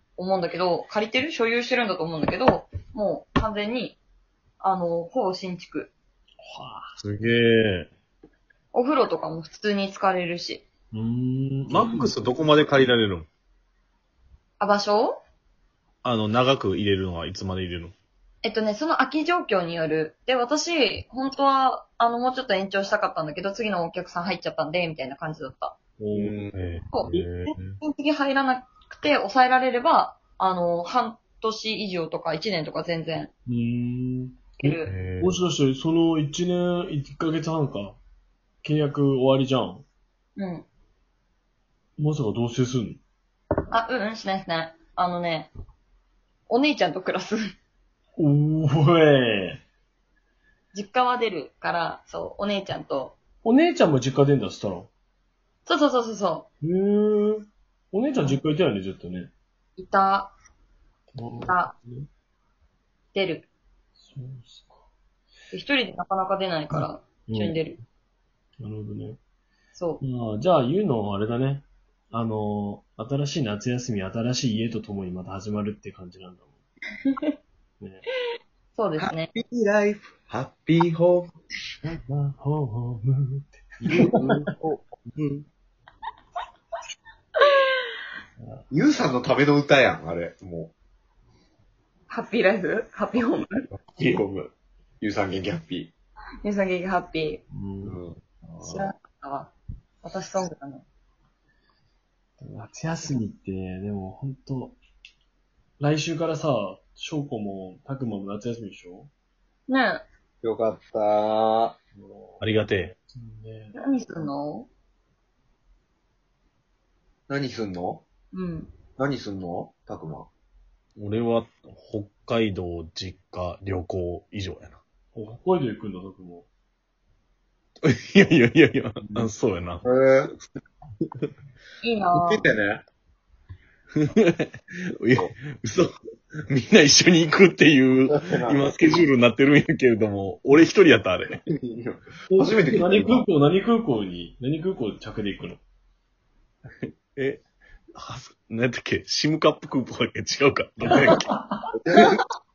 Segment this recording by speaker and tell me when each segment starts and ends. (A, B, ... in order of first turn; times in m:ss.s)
0:00.2-0:04.0 A
0:04.6-0:05.9 A
0:06.4-0:07.0 B
0:07.0-0:07.9 C
0:08.7-0:10.6 A
0:10.9-0:12.1 B
0:11.7-0:13.3 C
0:14.6-0:15.2 A
0:16.0-0:17.9 C
0:18.4-0:25.8 A
0:26.0-0:26.4 B
0:26.1-0:27.8 C
0:26.9-0:33.3 A
0:33.5-0:34.6 B
0:34.6-0:34.9 A
0:34.6-0:35.4 C
0:35.2-0:38.0 B
0:38.6-0:39.8 B
0:40.4-0:40.6 A
0:42.0-0:43.0 B
0:43.7-0:45.5 A
0:46.5-0:47.5 A
0:48.2-0:49.6 B
0:50.7-0:53.2 A
0:53.4-0:54.9 B
0:55.6-0:56.5 A
0:56.6-0:59.3 B
0:59.8-1:00.3 A
1:01.2-1:02.1 B
1:01.4-1:01.7 A
1:03.1-1:03.4 A
1:04.0-1:04.8 B
1:05.5-1:07.8 A
1:06.7-1:07.6 B
1:08.6-1:09.2 B
1:09.7-1:10.0 A
1:10.0-1:16.6 B
1:17.8-1:18.0 B
1:18.7-1:19.3 A
1:19.0-1:21.3 D
1:22.0-1:24.4 B
1:23.8-1:25.0 D
1:27.4-1:27.7 A
1:28.7-1:30.7 D
1:32.1-1:33.7 A
1:33.7-1:35.9 D
1:36.4-1:37.4 A
1:37.5-1:38.0 B
1:37.8-1:38.9 D
1:38.6-1:40.8 A
1:42.4-1:44.8 B
1:45.8-1:49.1 B
1:49.7-1:50.0 A
1:50.4-1:51.7 D
1:52.0-1:52.4 B
1:52.4-1:53.0 C
1:53.0-1:53.8 B
1:53.7-1:54.7 A
1:57.3-1:58.0 D
1:58.3-1:58.7 A
1:59.0-2:00.3 D
2:01.0-2:04.8 C
2:05.1-2:06.5 B
2:07.8-2:09.8 C
2:09.8-2:10.3 D
2:11.8-2:12.4 A
2:12.1-2:12.8 D
2:14.0-2:15.9 C
2:16.5-2:21.4 C
2:18.2-2:18.7 D
2:21.5-2:23.2 D
2:22.3-2:25.6 B
2:26.8-2:27.4 C
2:27.9-2:31.3 C
2:30.9-2:31.7 B
2:31.8-2:32.2 D